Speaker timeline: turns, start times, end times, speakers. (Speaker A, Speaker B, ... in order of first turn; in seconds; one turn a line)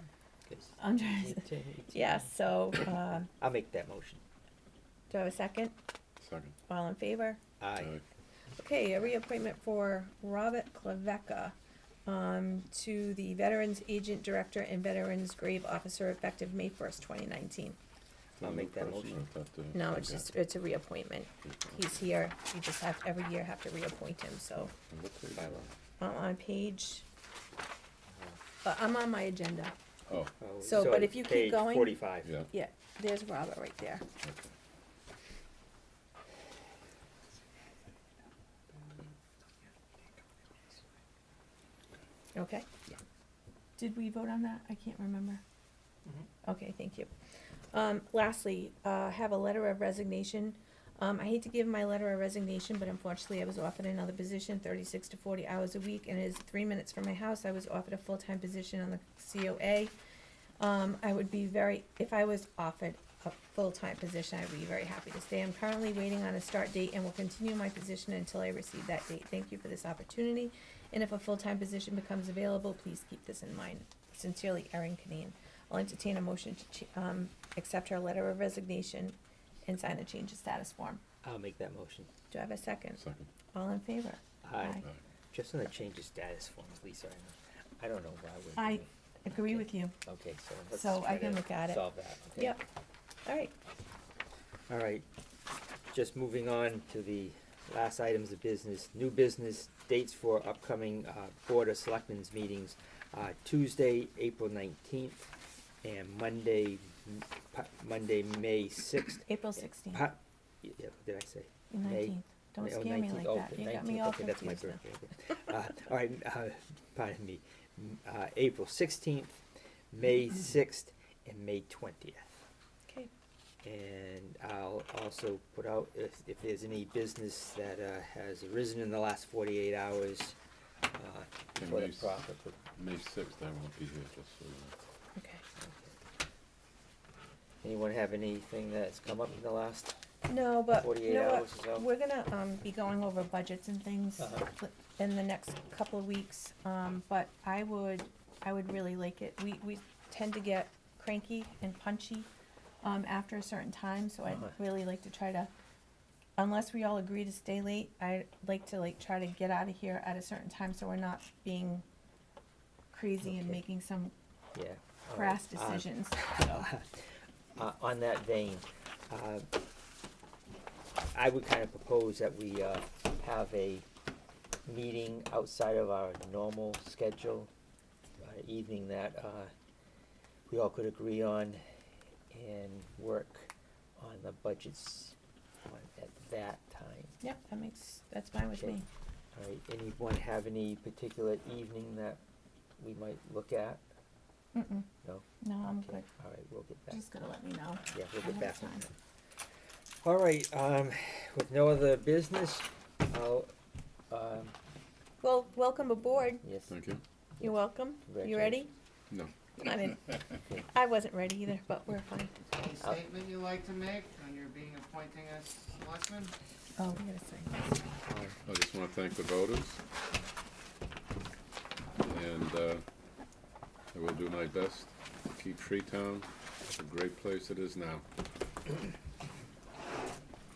Speaker A: 0.5-2.4
Speaker B: 0.8-3.3
Speaker A: 3.4-4.2
Speaker B: 5.1-5.7
Speaker C: 6.2-6.5
Speaker B: 6.7-7.4
Speaker A: 7.6-8.0
Speaker B: 8.6-11.5
Speaker B: 12.1-17.8
Speaker C: 18.4-20.2
Speaker A: 18.4-19.2
Speaker B: 19.7-24.7
Speaker C: 21.4-21.9
Speaker C: 24.7-25.7
Speaker B: 26.0-27.1
Speaker B: 28.6-29.7
Speaker C: 30.1-30.3
Speaker A: 30.4-32.3
Speaker B: 30.6-34.0
Speaker C: 34.2-34.5
Speaker B: 42.3-42.7
Speaker B: 43.8-45.4
Speaker B: 46.4-47.1
Speaker B: 47.7-59.9
Speaker B: 60.6-81.0
Speaker A: 81.2-82.1
Speaker B: 82.3-83.0
Speaker C: 83.0-83.3
Speaker B: 83.5-84.8
Speaker A: 84.4-92.6
Speaker B: 88.6-89.9
Speaker B: 90.7-91.8
Speaker B: 93.2-93.5
Speaker A: 94.7-95.0
Speaker A: 95.9-105.3
Speaker A: 105.8-109.3
Speaker B: 109.3-110.1
Speaker A: 109.9-119.4
Speaker B: 111.7-114.8
Speaker A: 119.9-122.4
Speaker A: 123.6-130.4
Speaker A: 130.9-132.6
Speaker C: 131.6-134.7
Speaker B: 135.2-135.4
Speaker A: 135.6-135.9
Speaker A: 137.6-139.9
Speaker B: 140.3-152.3
Speaker A: 140.7-141.9
Speaker A: 144.2-144.5
Speaker B: 152.8-155.5
Speaker A: 154.3-154.6
Speaker B: 156.4-161.8
Speaker B: 162.9-164.1
Speaker A: 163.2-163.6
Speaker A: 164.5-169.5
Speaker B: 165.1-166.7
Speaker A: 171.1-173.8
Speaker A: 174.7-177.5
Speaker A: 178.2-179.5
Speaker A: 180.5-181.6
Speaker A: 182.3-187.1
Speaker B: 187.2-188.8
Speaker A: 189.3-192.2
Speaker A: 192.8-193.8
Speaker B: 194.5-194.9
Speaker A: 195.0-197.0
Speaker B: 195.4-196.1
Speaker B: 196.9-198.8
Speaker A: 197.9-198.9
Speaker A: 200.0-203.5
Speaker A: 204.1-204.5
Speaker B: 205.2-206.4
Speaker A: 206.4-206.7
Speaker C: 206.7-207.0
Speaker B: 207.4-208.7
Speaker A: 208.1-208.7
Speaker B: 209.6-212.5
Speaker A: 210.4-210.7
Speaker D: 212.5-216.3
Speaker B: 216.8-217.9
Speaker A: 218.0-218.4
Speaker C: 218.4-219.8
Speaker C: 222.0-222.8
Speaker C: 223.9-228.0